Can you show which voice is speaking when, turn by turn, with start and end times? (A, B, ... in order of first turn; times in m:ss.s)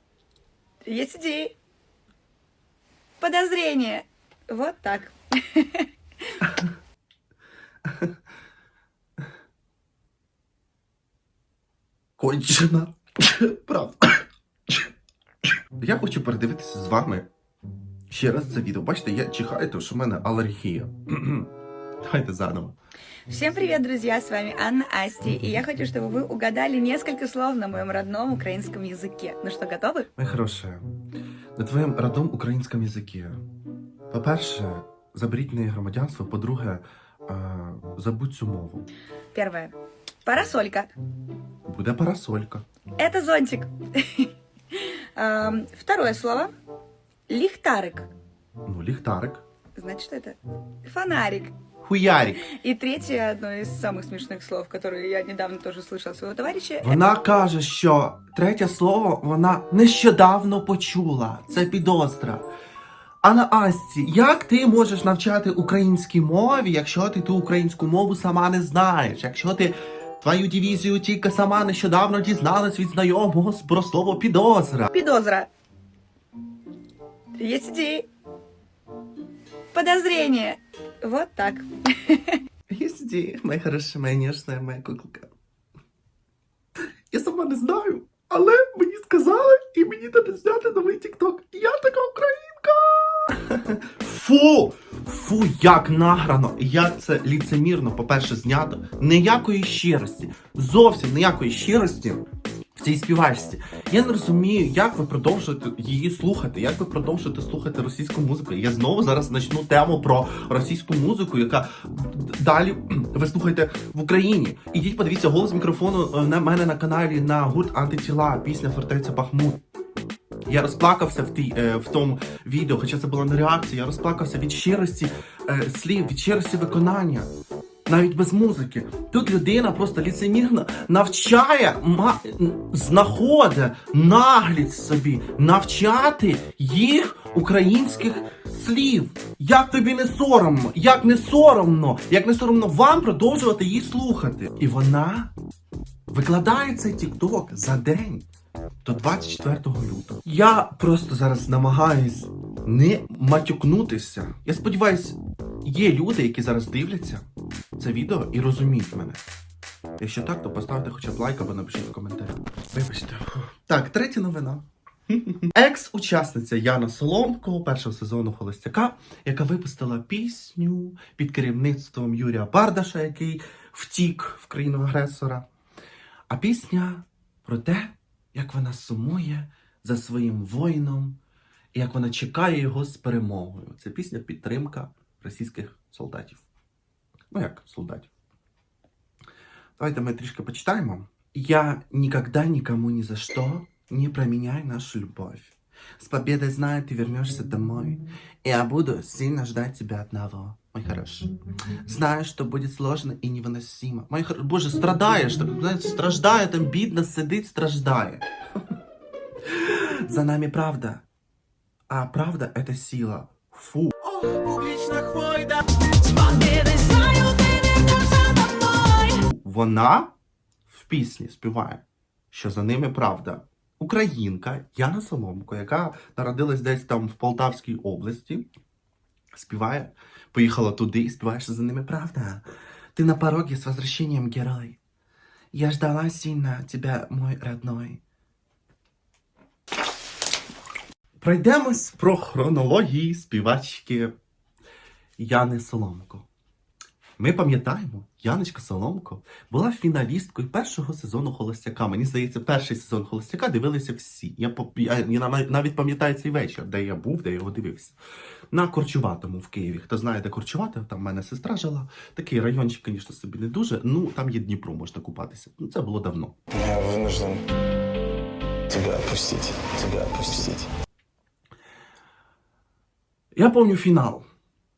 0:00.8-0:01.6 A
0:03.2-0:05.9 A
0:07.9-0:08.2 B
0:12.2-0:14.8 B
0:15.8-0:17.3 B
0:18.1-0:21.5 B
0:22.0-0:22.8 B
0:23.3-0:30.1 A
0:30.2-0:30.8 B
0:31.6-0:33.4 B
0:34.1-0:38.9 B
0:39.4-0:39.7 A
0:40.2-0:40.9 A
0:41.7-0:42.6 B
0:43.0-0:46.5 A
0:47.3-0:48.1 A
0:48.6-0:49.4 B
0:49.8-0:51.6 A
0:51.8-0:52.5 B
0:52.5-0:57.0 A
0:56.8-1:02.5 B
1:03.2-1:14.9 B
1:14.9-1:15.5 A
1:17.4-1:18.1 A
1:19.7-1:22.4 A
1:22.7-1:25.3 B
1:27.1-1:42.3 B
1:42.8-1:59.6 B
2:00.5-2:07.3 B
2:07.9-2:25.3 B
2:26.1-2:28.3 B
2:28.8-2:37.2 B
2:37.8-2:39.2 B
2:40.0-2:55.4 B
2:56.3-3:01.2 B
3:01.8-3:06.4 B
3:07.3-3:08.1 B
3:09.8-3:21.3 B
3:21.9-3:28.2 B
3:29.4-3:31.0 B
3:31.9-3:34.1 B
3:34.4-3:35.4 C
3:36.0-3:39.1 C
3:39.1-3:40.1 B
3:40.7-3:48.5 B
3:49.3-3:52.4 B
3:53.0-3:54.8 B
3:55.5-3:58.0 B
4:01.2-4:04.1 B
4:05.2-4:06.3 B
4:07.2-4:18.0 B
4:18.5-4:26.4 B
4:26.5-4:27.4 D
4:28.7-4:30.7 D
4:33.4-4:34.3 B